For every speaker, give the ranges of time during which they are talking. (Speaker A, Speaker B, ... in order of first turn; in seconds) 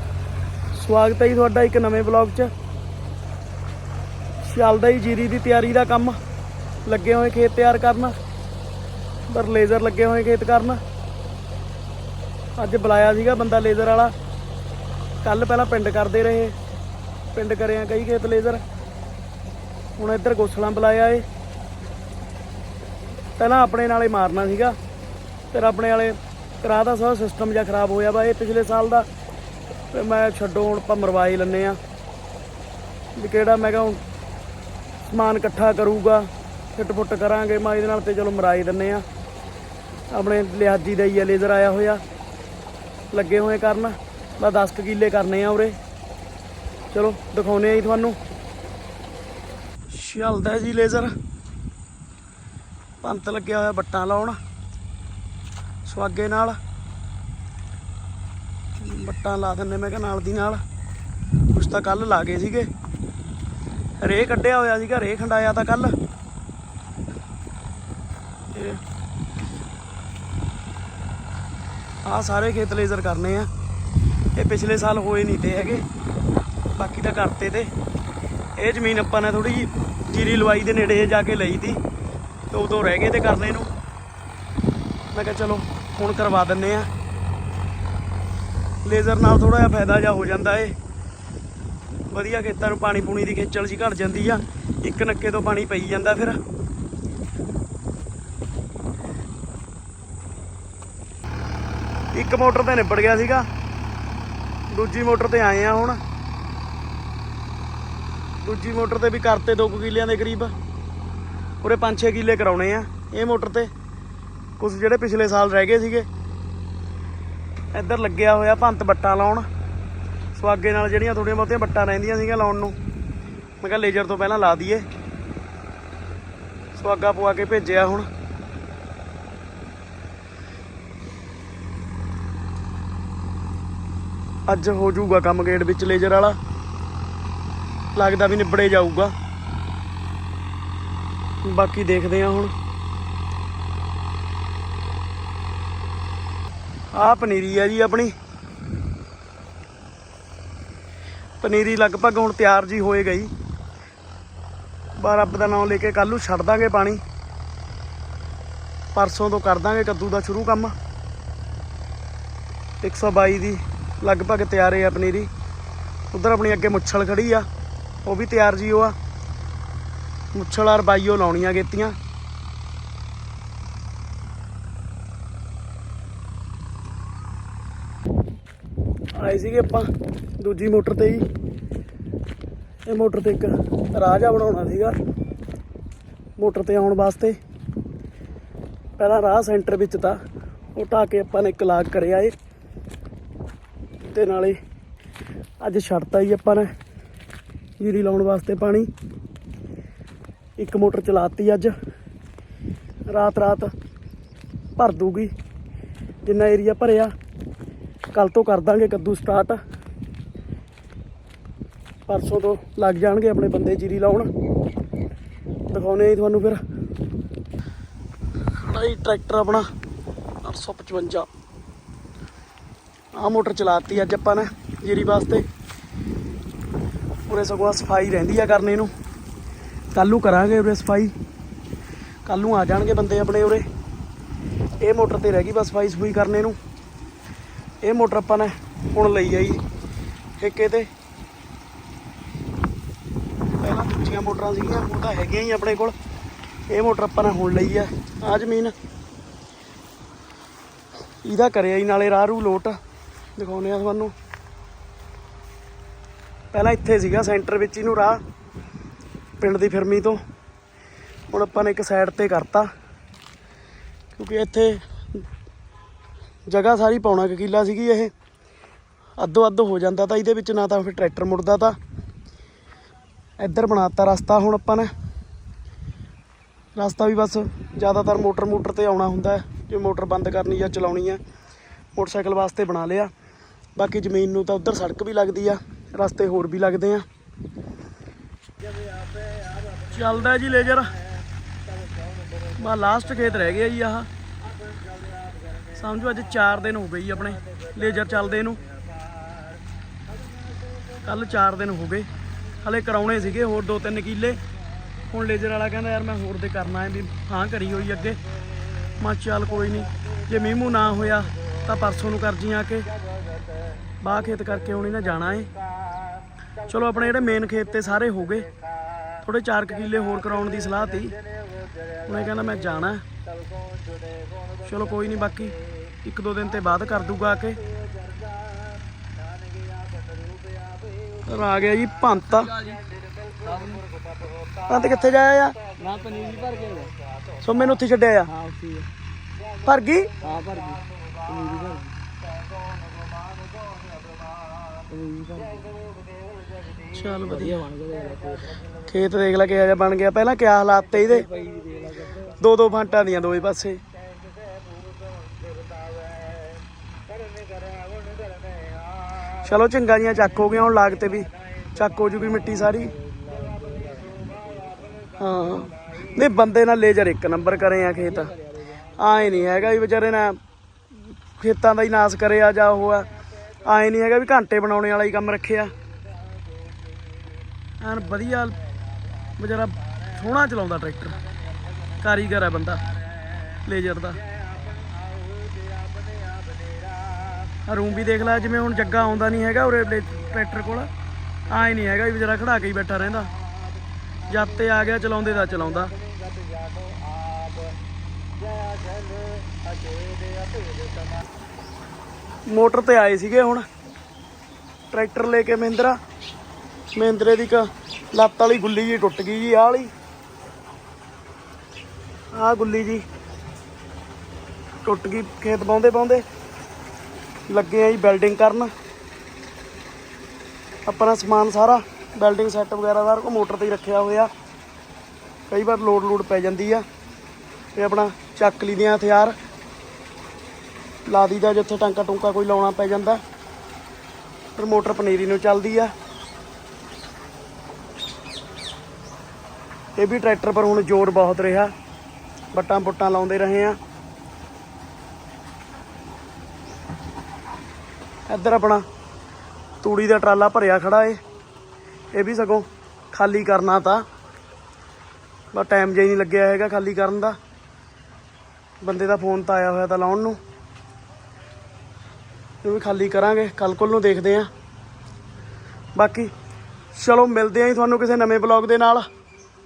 Speaker A: 0.7-2.5, 4.4-6.2, 6.8-8.1, 9.3-10.8, 12.6-14.1, 15.2-16.6, 17.4-18.6, 20.0-21.2, 23.4-24.8, 25.5-29.1, 29.9-31.8, 33.2-34.0, 35.1-39.0, 40.1-42.0, 43.1-45.8, 46.9-48.2, 49.9-51.1, 53.0-54.4, 55.9-56.6, 58.8-60.6, 61.5-62.7, 64.0-66.0, 68.5-68.8, 72.0-73.5, 74.4-75.9, 76.8-77.7, 78.6-81.8, 82.5-83.7, 85.1-86.9, 88.8-90.7, 92.1-96.4, 102.1-103.5, 104.7-106.0, 108.4-110.5, 111.6-113.7, 114.6-116.1, 117.7-119.5, 120.3-122.7, 123.6-124.9, 126.7-128.1, 134.5-136.4, 138.0-139.1, 141.5-142.5, 146.9-148.1, 151.4-153.3, 155.0-157.0, 158.9-160.7, 162.8-165.3, 166.1-167.5, 168.1-168.9, 170.3-171.9, 179.2-181.3, 182.9-185.0, 186.4-187.4, 189.0-190.2, 190.8-192.3, 194.1-194.6, 195.6-196.7, 197.8-198.9, 200.6-201.7, 203.1-203.7, 204.8-205.3, 206.2-207.1, 208.1-209.6, 212.1-214.3, 215.7-216.6, 218.5-219.7, 220.4-221.3, 223.2-225.5, 227.3-228.9, 229.9-231.1, 232.3-233.7, 234.8-236.6, 237.8-239.6, 240.4-240.9, 243.6-245.9, 246.7-248.7, 251.2-252.8, 253.4-254.1, 256.5-258.2, 259.4-260.2, 261.3-262.7, 264.1-265.2, 266.5-268.1, 269.2-271.8, 273.4-274.9, 276.8-281.2, 281.9-283.1, 283.8-287.1, 289.9-290.9, 292.5-294.1, 295.8-298.6, 301.0-302.1, 302.6-304.4, 305.1-308.2, 309.0-312.9, 314.0-315.5, 316.7-318.5, 319.2-321.2, 322.1-323.0, 324.6-327.6, 331.2-332.6, 334.6-335.6, 337.4-338.3, 339.6-340.1, 346.9-347.6, 348.9-351.3, 352.3-353.8, 359.4-362.9, 365.2-368.3, 369.0-370.4, 371.4-373.1, 373.6-375.7, 377.8-378.6, 379.4-381.2, 382.0-382.8, 383.6-384.2, 387.7-390.9, 391.5-393.3, 394.3-395.9, 402.5-403.7, 404.9-406.0, 406.9-409.9, 412.4-413.0, 414.8-416.2, 417.5-418.7, 420.9-424.3, 425.5-426.8, 427.8-429.4, 431.1-433.2, 434.6-435.9, 440.0-441.7, 442.5-443.8, 448.3-448.8, 449.8-451.2, 452.1-454.1, 455.5-457.4, 458.8-460.4, 462.6-464.5, 465.9-466.3, 466.9-469.1
Speaker B: 333.3-333.8, 335.8-337.0, 338.3-338.9, 340.2-342.0, 344.9-345.8, 347.4-348.6, 351.3-352.2, 363.3-364.1, 400.0-400.7